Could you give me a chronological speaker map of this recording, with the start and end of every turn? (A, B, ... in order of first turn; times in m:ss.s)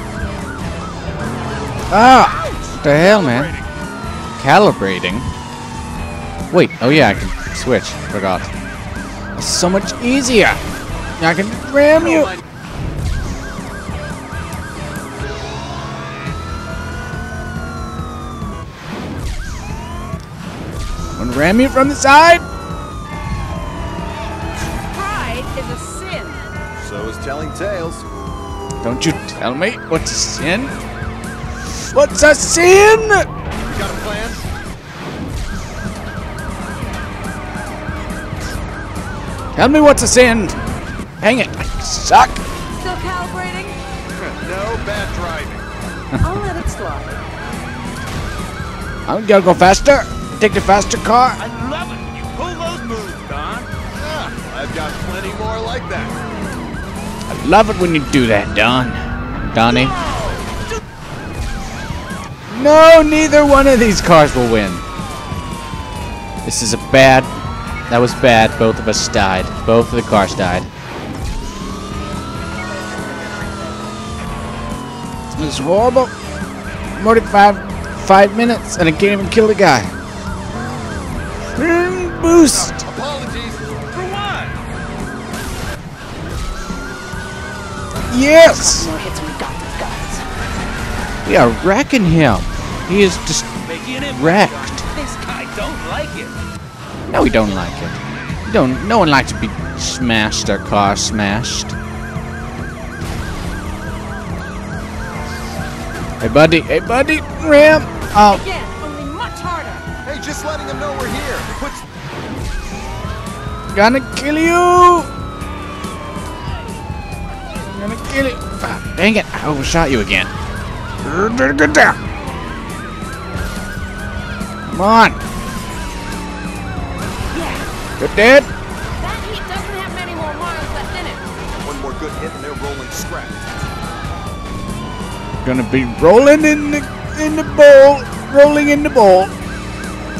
0:01.9-0:03.6 A
0:03.3-0:03.7 B
0:04.4-0:05.3 A
0:06.5-0:08.5 A
0:09.4-0:10.7 A
0:11.2-0:12.4 A
0:21.1-0:22.5 A
0:24.8-0:26.4 C
0:26.7-0:28.1 B
0:28.8-0:30.8 A
0:31.7-0:33.3 A
0:33.7-0:34.5 B
0:39.6-0:40.6 A
0:41.2-0:42.4 A
0:42.8-0:43.8 C
0:44.1-0:45.7 B
0:46.2-0:47.2 C
0:49.1-0:51.4 A
0:51.6-0:53.6 D
0:53.9-0:56.2 B
0:57.3-1:00.0 A
1:02.5-1:04.8 A
1:06.4-1:07.3 A
1:07.9-1:10.7 A
1:15.4-1:16.1 A
1:16.9-1:19.9 A
1:21.6-1:22.8 A
1:22.5-1:23.8 B
1:23.9-1:24.4 C
1:28.1-1:28.9 A
1:28.5-1:30.2 C
1:31.2-1:33.5 A
1:34.0-1:34.8 A
1:34.9-1:36.2 C
1:35.3-1:36.0 D
1:37.1-1:41.8 A
1:46.2-1:48.4 A
1:48.2-1:49.9 C
1:50.0-1:51.9 B
1:53.7-1:55.1 A
1:57.6-2:00.3 A
2:01.0-2:02.0 A
2:04.7-2:05.2 A
2:07.3-2:07.7 C
2:08.0-2:08.5 A
2:09.0-2:11.3 C
2:11.5-2:13.5 B
2:15.4-2:19.4 A